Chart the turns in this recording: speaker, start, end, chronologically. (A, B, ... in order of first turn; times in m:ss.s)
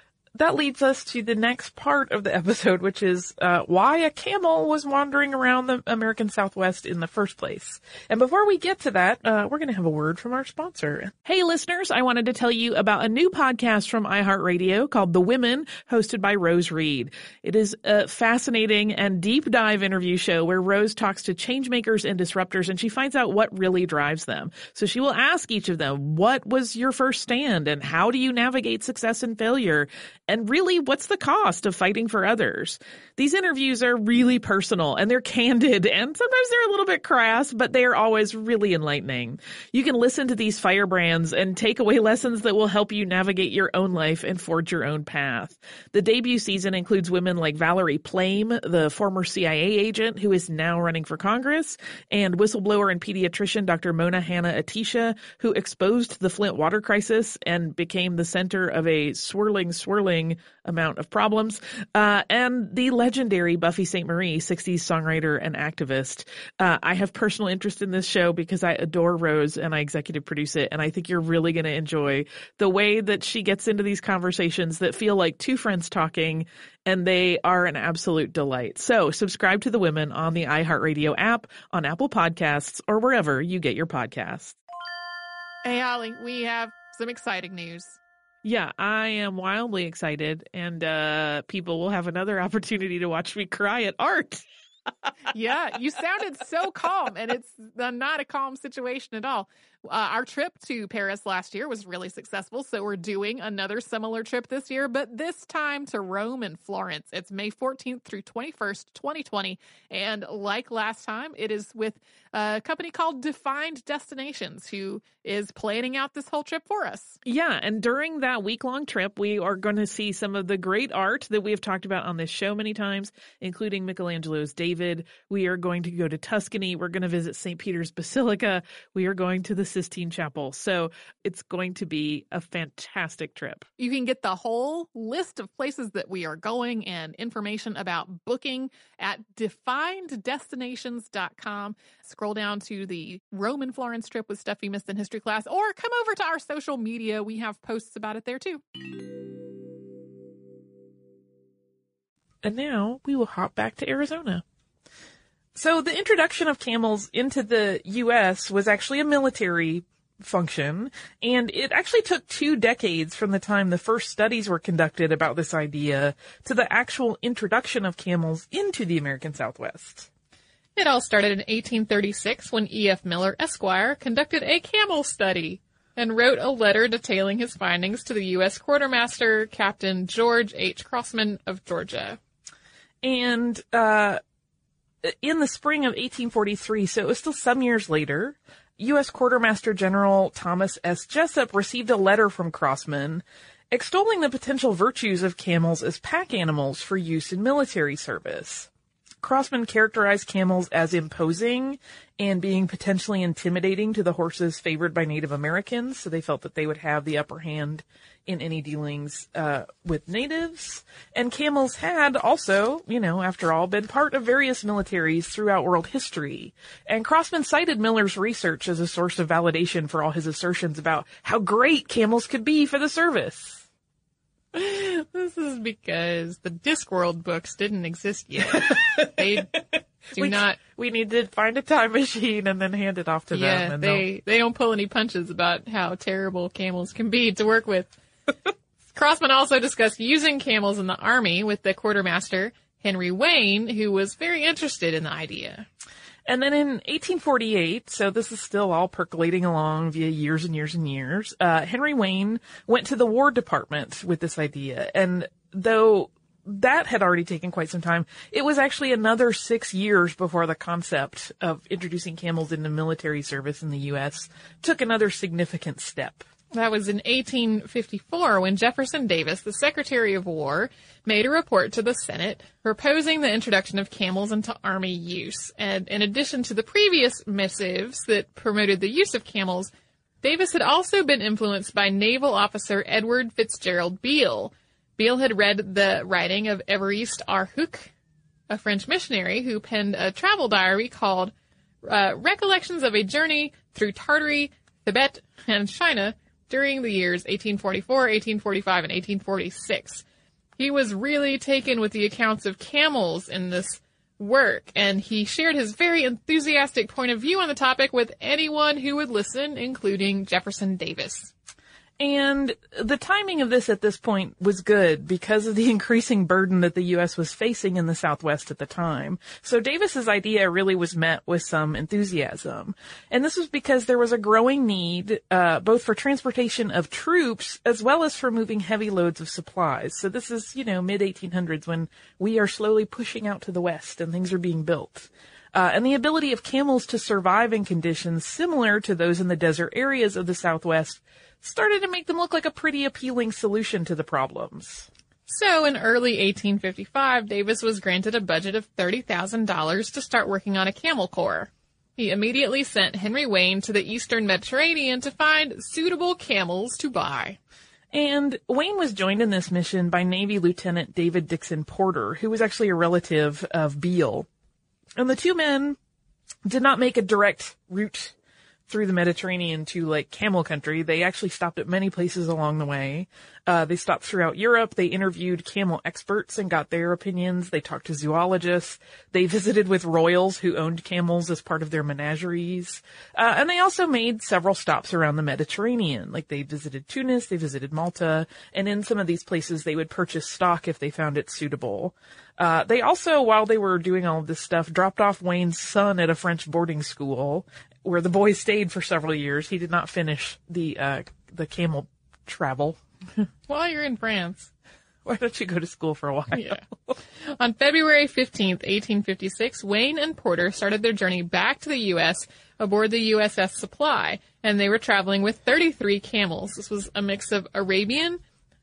0:00.3-1:24.6 A
1:25.6-1:28.0 B
1:28.4-1:34.4 A
1:35.3-1:57.2 B
1:57.2-2:13.7 A
2:13.8-2:28.6 B
2:32.4-2:34.4 A
2:35.5-2:50.1 A
2:50.8-3:02.2 B
3:03.0-3:04.2 A
3:05.0-3:18.7 A
3:19.2-3:43.6 A
3:44.5-3:50.6 B
3:48.4-3:49.4 A
3:50.2-3:54.0 A
3:53.3-3:57.9 B
3:58.9-4:05.7 B
4:06.3-4:26.2 A
4:26.5-4:39.7 B
4:40.2-4:47.9 B
4:48.5-4:51.3 B
4:51.8-5:00.0 B
5:00.6-5:11.3 B
5:12.0-5:44.9 A
5:45.3-5:57.4 B
5:57.9-6:04.3 A
6:05.0-6:05.8 A
6:06.4-6:08.1 A
6:08.7-6:42.8 A
6:43.5-6:44.5 B
6:45.0-6:46.6 A
6:47.4-6:58.2 B